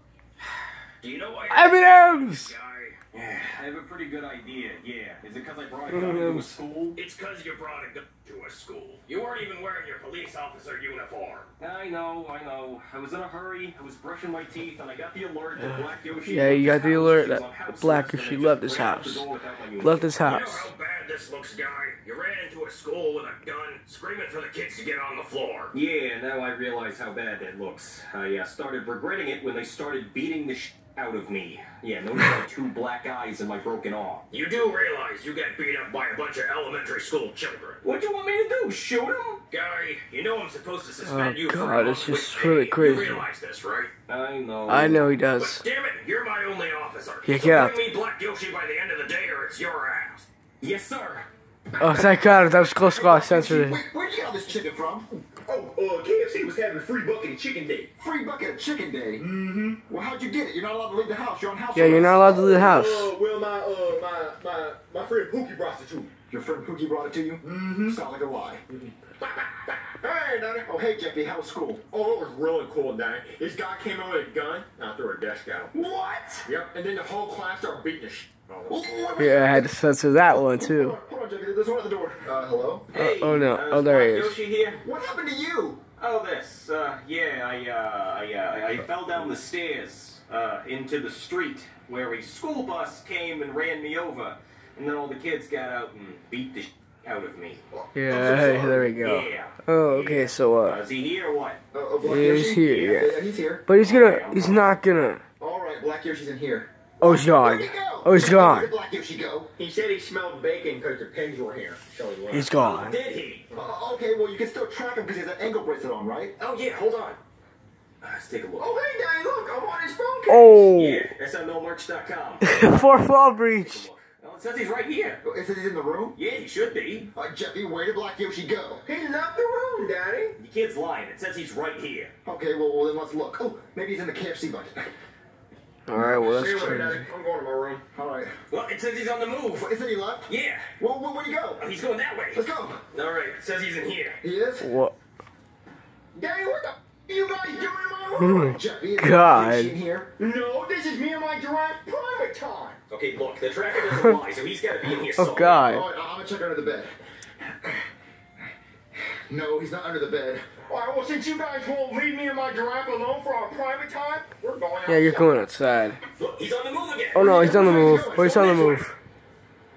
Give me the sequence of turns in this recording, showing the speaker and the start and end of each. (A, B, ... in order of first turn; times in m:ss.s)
0:01.0-0:51.2 A
0:01.5-0:02.5 B
0:05.9-0:06.6 B
0:16.2-0:19.3 B
0:19.8-0:20.7 B
0:41.0-0:43.2 B
0:44.7-0:45.6 B
0:47.2-0:47.8 B
0:51.8-0:53.8 B
0:51.9-0:52.1 C
0:52.7-0:55.4 D
0:55.4-0:57.9 C
0:58.0-0:59.3 D
0:59.2-0:59.8 C
0:59.8-1:02.8 D
1:01.7-1:03.1 B
1:02.6-1:06.1 C
1:06.3-1:08.6 D
1:07.4-1:08.0 C
1:09.1-1:10.8 C
1:10.8-1:11.9 D
1:11.9-1:18.7 C
1:15.8-1:16.4 D
1:18.7-1:19.7 D
1:19.2-1:21.0 B
1:20.3-1:22.9 D
1:22.9-1:24.8 A
1:22.9-1:24.4 B
1:24.8-1:25.8 D
1:26.0-1:37.6 A
1:37.7-1:38.9 D
1:37.9-1:40.8 B
1:39.0-1:41.6 A
1:41.7-1:43.6 D
1:42.0-1:45.2 B
1:43.8-1:44.8 A
1:45.4-1:49.5 D
1:47.0-1:48.7 B
1:49.6-1:52.5 C
1:52.3-1:53.0 B
1:52.5-1:53.5 A
1:53.5-1:56.4 D
1:56.4-1:57.2 A
1:58.0-1:58.7 A
1:58.6-2:00.7 C
2:00.3-2:01.1 B
2:00.7-2:05.2 A
2:02.4-2:03.9 B
2:05.2-2:06.2 D
2:06.1-2:07.1 A
2:07.1-2:08.8 D
2:08.8-2:10.4 C
2:10.4-2:12.1 A
2:12.2-2:14.9 D
2:15.9-2:17.1 B
2:16.0-2:16.8 D
2:16.2-2:17.8 C
2:17.9-2:18.3 D
2:18.5-2:19.7 A
2:19.5-2:21.6 D
2:20.3-2:20.7 A
2:21.6-2:24.2 A
2:22.3-2:22.8 D
2:24.2-2:24.7 D
2:24.6-2:25.0 B
2:26.1-2:28.4 C
2:28.2-2:29.8 B
2:28.4-2:30.1 D
2:30.2-2:32.8 C
2:32.9-2:35.6 A
2:33.8-2:34.2 B
2:35.1-2:35.8 B
2:35.6-2:36.9 D
2:39.3-2:40.4 D
2:40.7-2:45.3 C
2:44.8-2:46.0 B
2:46.2-2:48.0 A
2:47.1-2:48.9 B
2:47.2-2:48.9 D
2:48.2-2:48.6 C